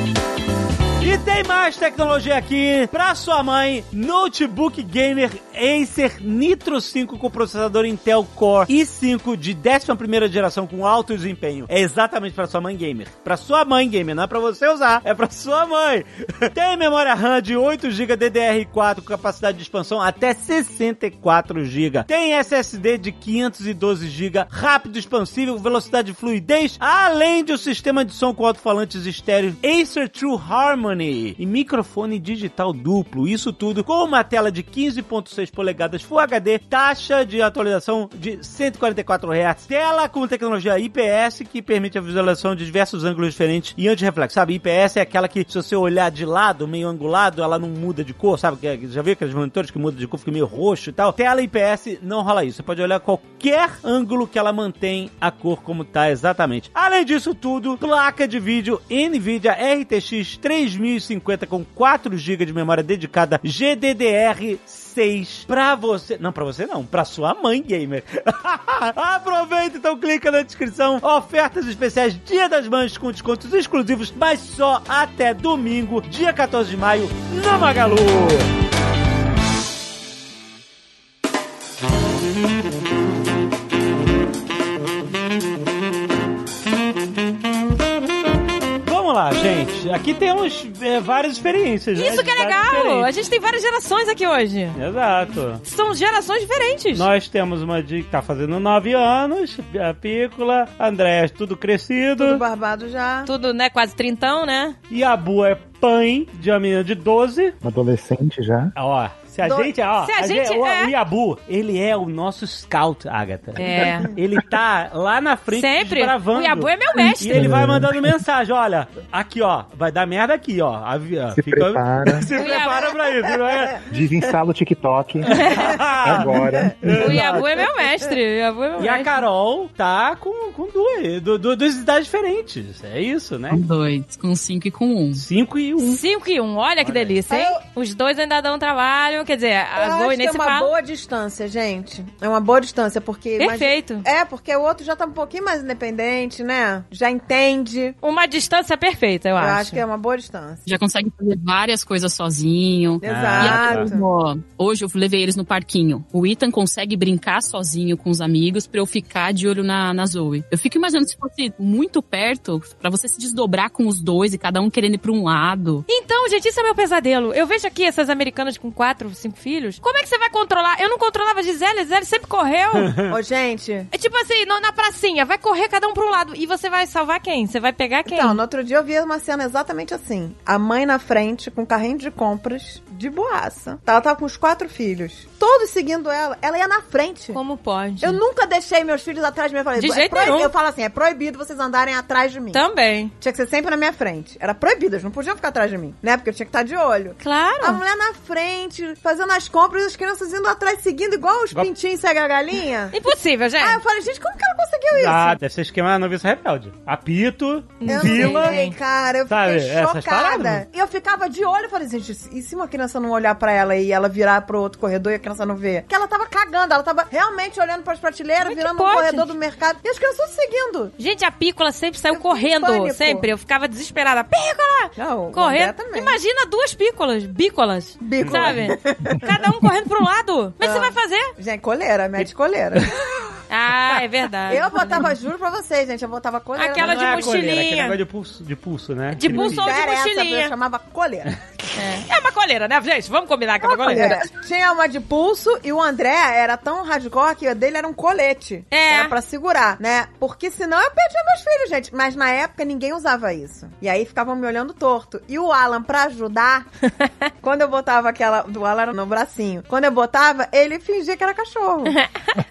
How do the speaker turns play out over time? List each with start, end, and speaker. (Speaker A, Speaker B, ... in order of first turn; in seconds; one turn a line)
Speaker A: 1.0-78.5
Speaker A: 88.8-93.1
Speaker B: 92.0-94.8
Speaker A: 94.7-95.6
Speaker B: 95.6-97.1
Speaker A: 96.9-102.4
Speaker C: 102.2-103.3
Speaker B: 103.2-104.8
Speaker A: 104.9-107.5
Speaker D: 107.6-108.7
Speaker A: 108.8-123.9
Speaker B: 110.0-110.9
Speaker B: 113.5-114.1
Speaker B: 115.5-117.5
Speaker D: 117.3-118.1
Speaker D: 121.3-122.3
Speaker B: 122.3-122.9
Speaker D: 123.9-127.2
Speaker A: 125.2-127.6
Speaker B: 125.3-125.6
Speaker B: 127.0-129.1
Speaker A: 128.8-133.6
Speaker E: 133.5-135.2
Speaker A: 135.2-136.0
Speaker B: 135.8-140.7
Speaker A: 136.8-137.2
Speaker C: 137.3-137.6
Speaker C: 139.8-147.9
Speaker B: 143.4-144.0
Speaker B: 148.0-149.8
Speaker C: 149.4-150.7
Speaker E: 150.7-165.8
Speaker C: 153.0-154.1
Speaker A: 153.0-153.9
Speaker B: 165.9-172.9
Speaker C: 173.1-173.9
Speaker B: 173.9-178.4
Speaker C: 178.1-187.4
Speaker B: 187.3-188.2
Speaker C: 188.0-192.6
Speaker B: 189.8-190.5
Speaker B: 192.5-193.1
Speaker C: 193.2-202.9
Speaker B: 197.2-197.8
Speaker B: 202.9-203.8
Speaker C: 203.6-205.4
Speaker A: 204.9-208.5
Speaker B: 207.8-208.7
Speaker C: 207.8-220.9
Speaker A: 209.3-210.6
Speaker B: 218.4-219.3
Speaker B: 221.0-231.3
Speaker C: 222.1-223.2
Speaker C: 225.0-226.2
Speaker C: 228.0-229.4
Speaker A: 228.2-228.6
Speaker C: 230.6-233.1
Speaker B: 233.5-235.1
Speaker C: 234.5-237.4
Speaker B: 236.6-238.0
Speaker A: 236.8-239.8
Speaker B: 239.1-240.5
Speaker C: 239.2-241.3
Speaker B: 241.7-244.2
Speaker C: 243.6-256.7
Speaker B: 248.7-249.1
Speaker C: 257.4-261.9